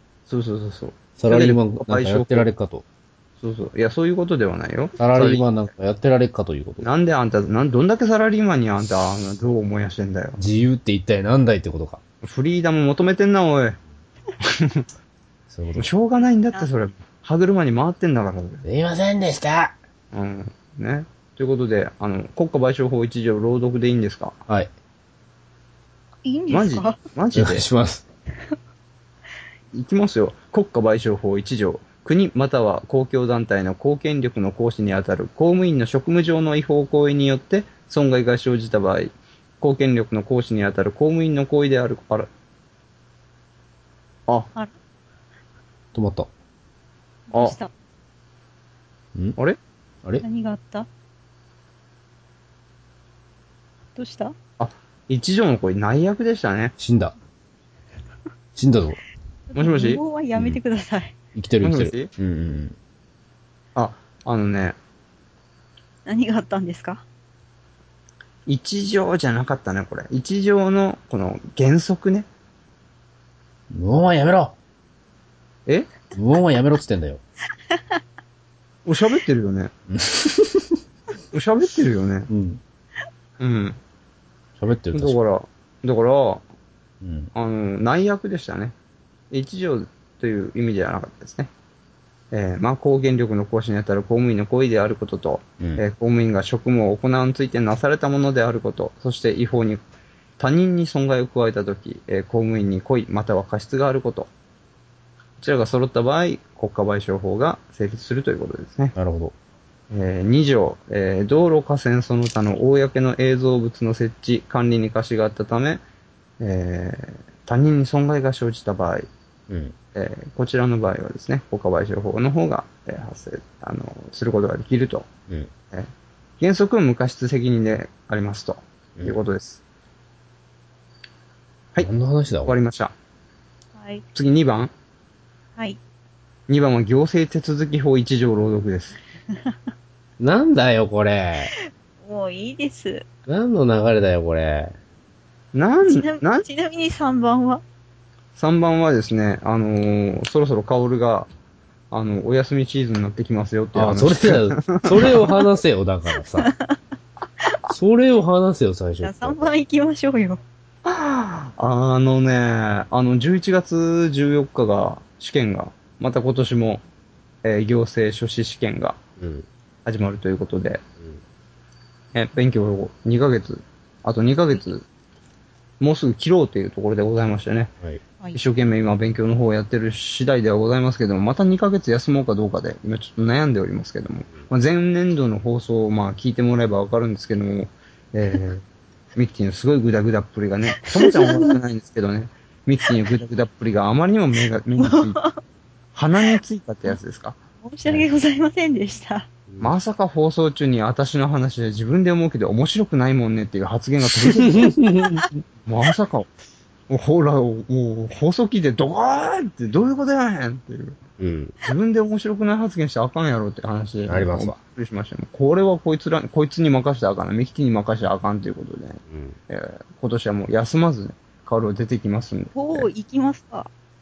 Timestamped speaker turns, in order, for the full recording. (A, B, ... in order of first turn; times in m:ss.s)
0:00.3-0:02.5 A
0:01.2-0:02.8 B
0:03.4-0:05.4 A
0:05.0-0:06.9 B
0:06.8-0:10.4 A
0:10.4-0:12.0 B
0:12.2-0:13.8 A
0:14.4-0:14.8 A
0:15.5-0:15.9 B
0:15.8-0:18.6 A
0:18.6-0:19.7 B
0:20.1-0:24.4 A
0:26.2-0:27.0 C
0:26.5-0:27.7 A
0:27.3-0:28.0 B
0:29.7-0:42.3 A
0:45.9-0:46.3 B
0:47.3-0:47.7 C
0:50.2-0:50.9 C
0:54.0-0:54.4 C
0:54.6-0:56.7 A
0:56.8-0:57.2 B
0:58.6-0:59.0 B
0:59.5-1:01.1 C
0:59.6-1:00.0 A
1:01.4-1:02.8 B
1:01.6-1:02.1 A
1:03.8-1:04.8 A
1:06.1-1:07.0 C
1:08.5-1:12.3 A
1:13.7-1:14.6 B
1:16.1-1:17.2 B
1:17.7-1:18.0 C
1:18.8-1:19.7 A
1:19.9-1:20.8 B
1:21.3-1:22.3 A
1:22.3-1:22.6 B
1:23.4-1:23.8 A
1:24.6-1:25.2 B
1:24.9-1:26.4 A
1:27.0-1:27.3 B
1:27.4-1:28.7 A
1:29.3-1:31.5 A
1:32.3-1:39.8 A
1:40.4-1:44.3 A
1:45.4-1:49.0 A
1:49.0-1:49.3 B
1:49.9-1:55.8 A
1:56.4-1:59.1 A
1:59.5-1:59.8 B
2:00.0-2:05.1 A
2:06.4-2:09.6 A
2:11.8-2:12.6 B
2:12.5-2:12.9 A
2:13.8-2:14.0 C
2:14.2-2:14.7 A
2:16.5-2:19.0 A
2:20.2-2:21.5 B
2:21.6-2:23.0 C
2:23.3-2:24.8 B
2:25.5-2:26.5 A
2:25.8-2:27.6 C
2:28.4-2:31.3 A
2:31.9-2:35.2 A
2:33.8-2:36.5 B
2:37.7-2:39.6 B
2:39.0-2:40.4 C
2:40.8-2:46.8 A
2:47.4-2:49.0 A
2:49.2-2:49.5 B
2:49.9-2:50.8 A
2:52.1-2:54.8 A
2:55.8-2:57.7 A
2:58.3-3:08.6 A
3:09.2-3:15.2 A
3:11.0-3:11.5 C
3:14.8-3:15.4 C
3:16.0-3:17.4 A
3:17.6-3:19.3 C
3:19.5-3:19.8 B
3:19.6-3:24.8 A
3:24.2-3:25.2 B
3:25.3-3:26.3 A
3:26.9-3:31.0 A
3:31.2-3:31.6 B
3:31.6-3:42.9 A
3:34.1-3:34.6 B
3:39.1-3:39.4 B
3:42.5-3:43.7 C